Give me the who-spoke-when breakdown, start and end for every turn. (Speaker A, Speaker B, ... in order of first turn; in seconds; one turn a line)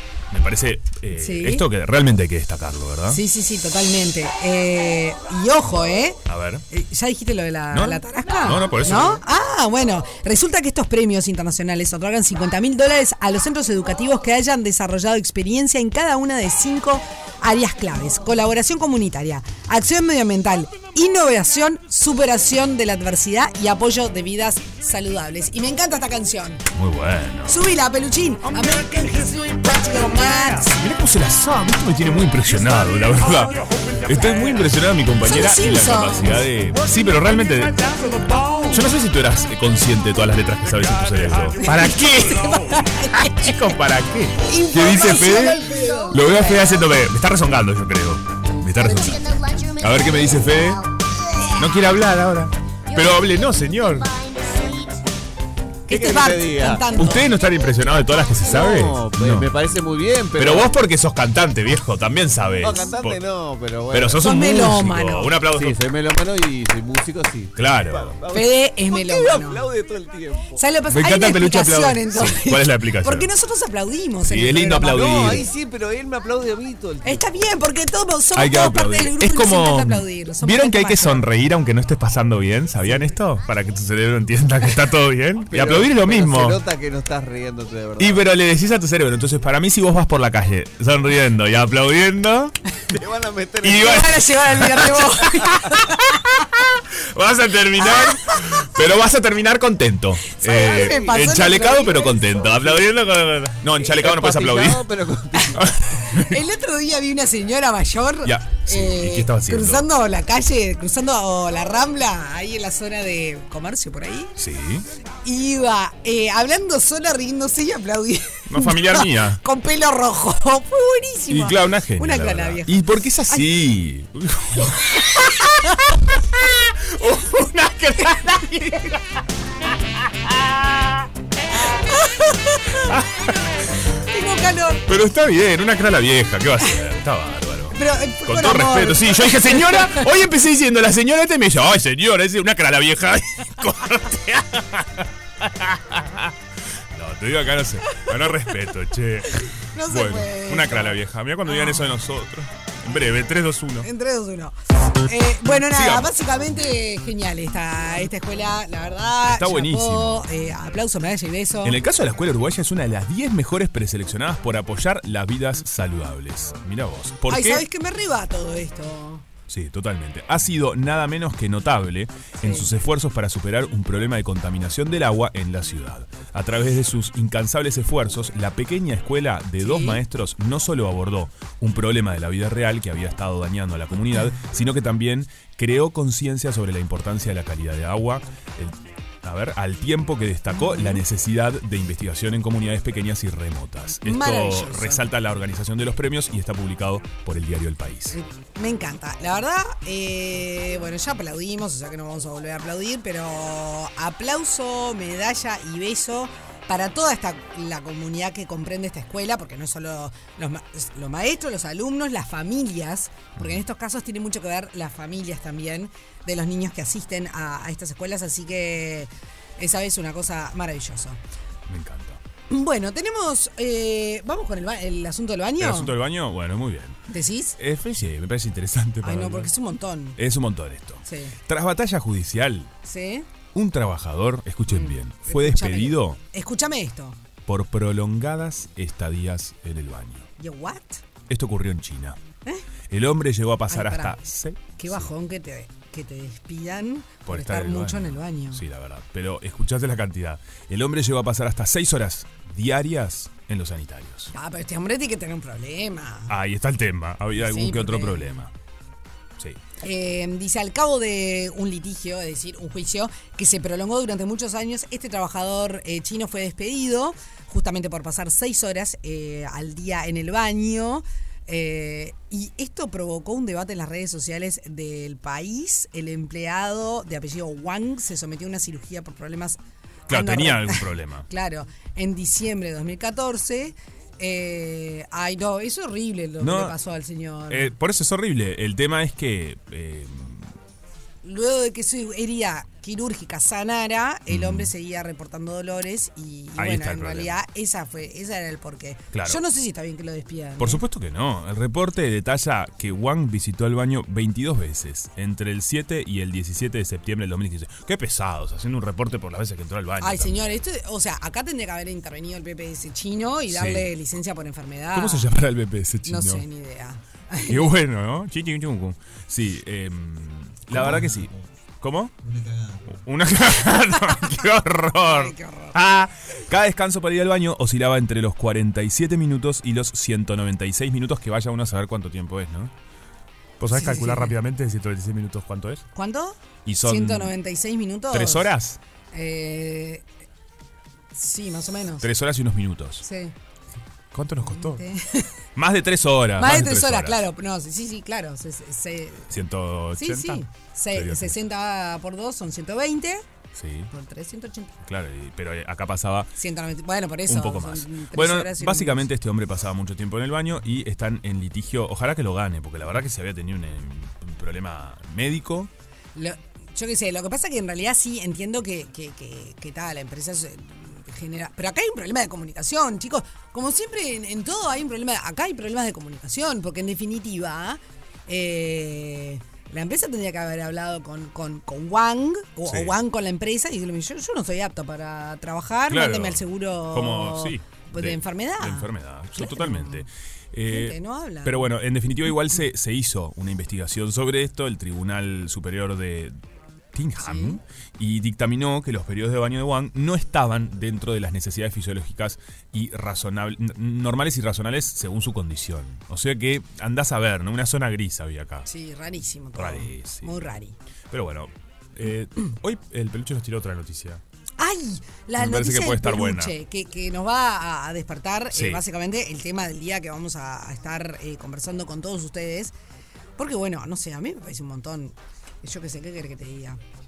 Speaker A: 0.3-3.2
Speaker B: 1.1-1.7
Speaker B: 3.1-6.2
Speaker A: 6.3-6.7
Speaker B: 6.7-26.6
Speaker A: 7.7-9.2
Speaker A: 26.7-27.6
Speaker B: 27.5-30.8
Speaker A: 30.8-50.8
Speaker B: 35.2-36.5
Speaker B: 41.6-43.7
Speaker B: 44.5-46.8
Speaker A: 51.6-54.1
Speaker B: 55.9-57.4
Speaker C: 55.9-57.0
Speaker A: 57.0-59.5
Speaker C: 58.5-60.7
Speaker A: 60.4-63.2
Speaker C: 62.6-64.2
Speaker A: 63.9-65.8
Speaker B: 64.2-65.3
Speaker C: 65.5-70.6
Speaker A: 67.6-68.2
Speaker B: 68.3-69.6
Speaker B: 70.6-75.4
Speaker A: 70.9-73.3
Speaker A: 74.2-75.5
Speaker C: 74.8-77.2
Speaker B: 77.0-81.3
Speaker A: 78.3-86.6
Speaker C: 85.5-88.2
Speaker A: 88.0-92.6
Speaker C: 92.9-94.3
Speaker A: 93.6-104.8
Speaker B: 93.7-96.0
Speaker B: 97.8-98.4
Speaker B: 100.3-102.4
Speaker C: 100.6-101.3
Speaker C: 102.4-102.9
Speaker C: 103.8-105.8
Speaker B: 105.4-114.4
Speaker A: 105.6-106.4
Speaker A: 108.2-109.9
Speaker A: 114.4-114.9
Speaker B: 115.2-123.5
Speaker A: 118.5-119.4
Speaker A: 121.3-129.0
Speaker B: 125.0-125.8
Speaker B: 128.0-128.9
Speaker A: 130.2-130.8
Speaker B: 131.8-133.0
Speaker A: 132.8-133.4
Speaker B: 134.1-134.8
Speaker A: 134.9-146.3
Speaker B: 137.7-140.0
Speaker A: 146.9-153.9
Speaker B: 149.5-151.9
Speaker B: 153.8-161.8
Speaker A: 155.4-156.1
Speaker A: 159.3-160.3
Speaker A: 161.6-167.7
Speaker B: 167.3-169.2
Speaker A: 169.5-198.2
Speaker B: 172.4-172.7
Speaker B: 179.6-180.0
Speaker B: 190.5-191.0
Speaker B: 194.0-195.1
Speaker B: 198.1-221.2
Speaker A: 221.7-222.2
Speaker B: 222.5-225.9
Speaker A: 225.6-227.0
Speaker B: 227.1-227.6
Speaker A: 227.6-229.5
Speaker B: 229.0-230.2
Speaker A: 230.2-232.7
Speaker B: 231.1-231.4
Speaker B: 232.8-233.3
Speaker A: 233.5-236.2
Speaker B: 234.7-237.2
Speaker A: 237.5-240.3
Speaker B: 240.4-241.0
Speaker A: 241.3-242.2
Speaker A: 242.9-245.1
Speaker B: 243.7-244.2
Speaker B: 244.8-248.6
Speaker A: 247.3-254.3
Speaker B: 254.3-256.3
Speaker A: 256.3-258.5
Speaker B: 257.4-258.4
Speaker B: 259.8-287.7
Speaker A: 280.1-281.3
Speaker A: 286.4-286.8
Speaker A: 287.5-290.5
Speaker B: 291.2-300.8
Speaker A: 294.3-294.7
Speaker A: 296.6-297.4
Speaker A: 299.1-299.4
Speaker A: 300.6-310.6
Speaker B: 310.0-315.3
Speaker A: 313.5-313.9
Speaker A: 314.9-316.4
Speaker B: 316.1-317.7
Speaker A: 317.5-322.1
Speaker A: 322.9-332.7
Speaker B: 325.0-325.8
Speaker A: 333.6-335.9
Speaker B: 333.7-334.4
Speaker B: 335.9-338.5
Speaker A: 336.7-337.3
Speaker A: 338.1-338.8
Speaker B: 339.1-340.1
Speaker B: 341.1-342.1
Speaker A: 342.0-343.0
Speaker B: 343.0-343.3
Speaker A: 344.1-344.8
Speaker B: 344.4-345.3
Speaker A: 345.6-347.2
Speaker B: 346.4-349.3
Speaker A: 349.3-351.4
Speaker B: 350.0-353.2
Speaker A: 353.6-353.9
Speaker B: 353.9-354.8
Speaker A: 354.8-356.3
Speaker B: 356.4-359.1
Speaker A: 357.3-365.7
Speaker B: 366.1-390.1
Speaker A: 382.7-382.9
Speaker A: 385.9-396.4
Speaker B: 390.7-391.7
Speaker A: 396.9-408.7
Speaker B: 397.2-397.6
Speaker B: 408.7-410.8
Speaker A: 409.6-410.5
Speaker A: 411.1-414.2
Speaker B: 414.6-422.7
Speaker A: 415.4-416.5
Speaker A: 418.5-418.8
Speaker B: 423.4-426.8